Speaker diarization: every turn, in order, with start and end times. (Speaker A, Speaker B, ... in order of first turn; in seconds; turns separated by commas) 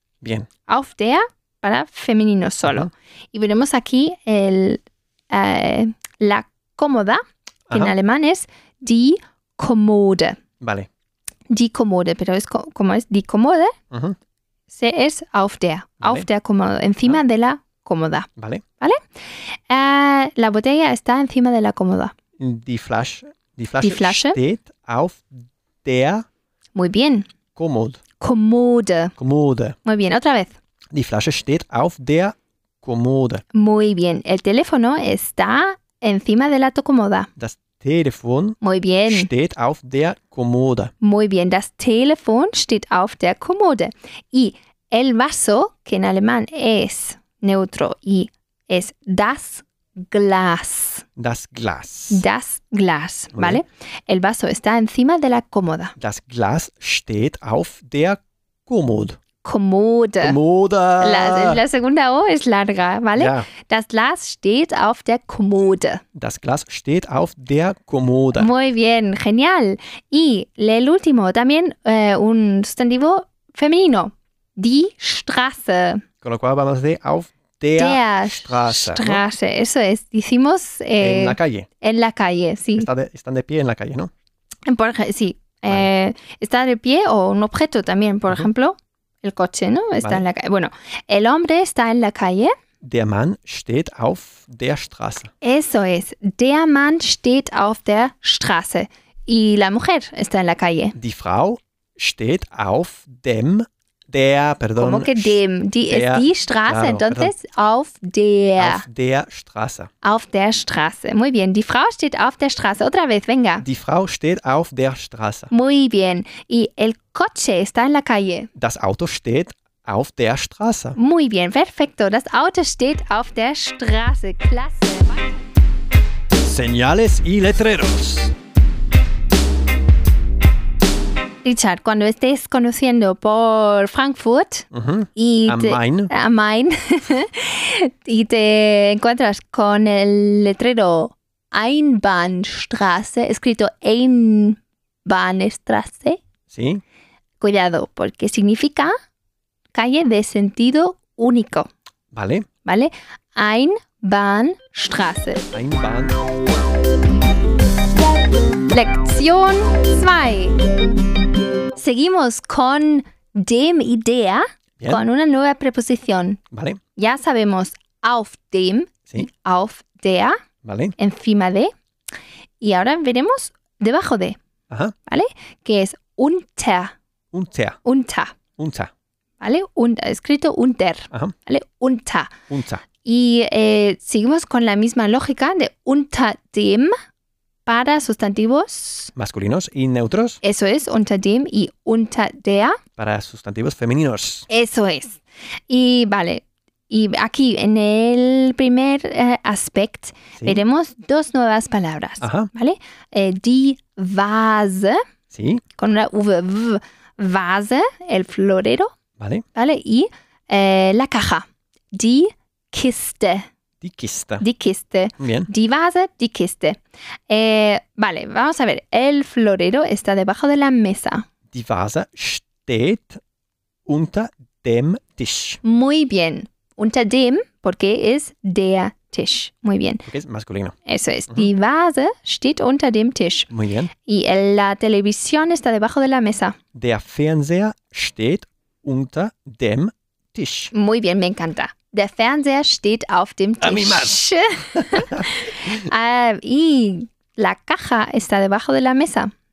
Speaker A: 0.2-0.5, Speaker B: 0.7-10.4, Speaker A: 2.6-2.9, Speaker A: 7.7-7.9, Speaker A: 10.6-10.9, Speaker B: 11.5-13.7, Speaker A: 13.9-14.2, Speaker B: 14.7-18.3, Speaker A: 18.4-18.6, Speaker B: 19.7-22.1, Speaker A: 22.4-26.2, Speaker B: 23.8-24.4, Speaker B: 26.7-27.2, Speaker A: 27.6-28.0, Speaker B: 28.2-29.1, Speaker A: 29.2-29.8, Speaker B: 29.8-30.6, Speaker A: 30.9-33.4, Speaker B: 33.5-37.3, Speaker A: 37.4-40.9, Speaker B: 38.6-39.3, Speaker B: 41.0-51.0, Speaker A: 51.2-52.2, Speaker B: 52.1-55.9, Speaker A: 53.3-53.6, Speaker A: 56.0-59.2, Speaker B: 59.4-60.4, Speaker A: 60.2-61.6, Speaker B: 61.0-66.0, Speaker A: 63.1-63.5, Speaker A: 66.1-68.5, Speaker B: 68.3-76.0, Speaker A: 76.2-79.2, Speaker B: 77.8-82.9, Speaker A: 81.0-81.7, Speaker A: 82.8-84.1, Speaker B: 84.7-92.5, Speaker A: 92.8-95.3, Speaker B: 95.4-101.0, Speaker A: 101.0-107.3, Speaker B: 104.8-108.8, Speaker A: 108.6-109.9, Speaker B: 110.0-113.6, Speaker A: 113.6-115.5, Speaker B: 115.5-118.5, Speaker A: 118.5-121.0, Speaker B: 121.0-125.4, Speaker A: 126.4-128.3, Speaker B: 131.4-146.2, Speaker A: 134.7-136.1, Speaker A: 146.5-146.8, Speaker B: 147.4-148.9, Speaker B: 149.7-151.7, Speaker A: 152.1-152.4, Speaker B: 152.6-155.5, Speaker A: 155.5-156.2, Speaker B: 158.7-160.6, Speaker B: 161.8-166.4, Speaker A: 166.5-166.8, Speaker B: 167.0-170.3, Speaker A: 170.6-170.9, Speaker B: 171.0-171.7, Speaker B: 172.6-174.4, Speaker B: 175.1-176.9, Speaker A: 177.3-177.8, Speaker B: 177.8-178.3, Speaker A: 178.6-178.9, Speaker B: 179.4-182.3, Speaker A: 182.5-182.8, Speaker B: 183.0-186.9, Speaker B: 187.7-189.1, Speaker A: 189.2-190.4, Speaker B: 190.4-192.8, Speaker A: 193.0-194.5, Speaker B: 194.5-205.0, Speaker A: 202.2-202.5, Speaker A: 205.3-205.6, Speaker B: 205.8-208.9, Speaker A: 209.2-209.4, Speaker B: 209.5-213.4, Speaker A: 213.8-214.4, Speaker B: 214.4-216.8, Speaker A: 215.2-215.5, Speaker B: 217.3-221.2, Speaker A: 221.5-223.2, Speaker A: 223.9-225.6, Speaker B: 225.6-230.0, Speaker A: 230.1-230.7, Speaker B: 230.8-233.5, Speaker A: 233.5-233.9, Speaker B: 234.0-236.6, Speaker A: 236.7-240.7, Speaker B: 240.7-249.3, Speaker A: 243.6-244.2, Speaker A: 244.7-245.7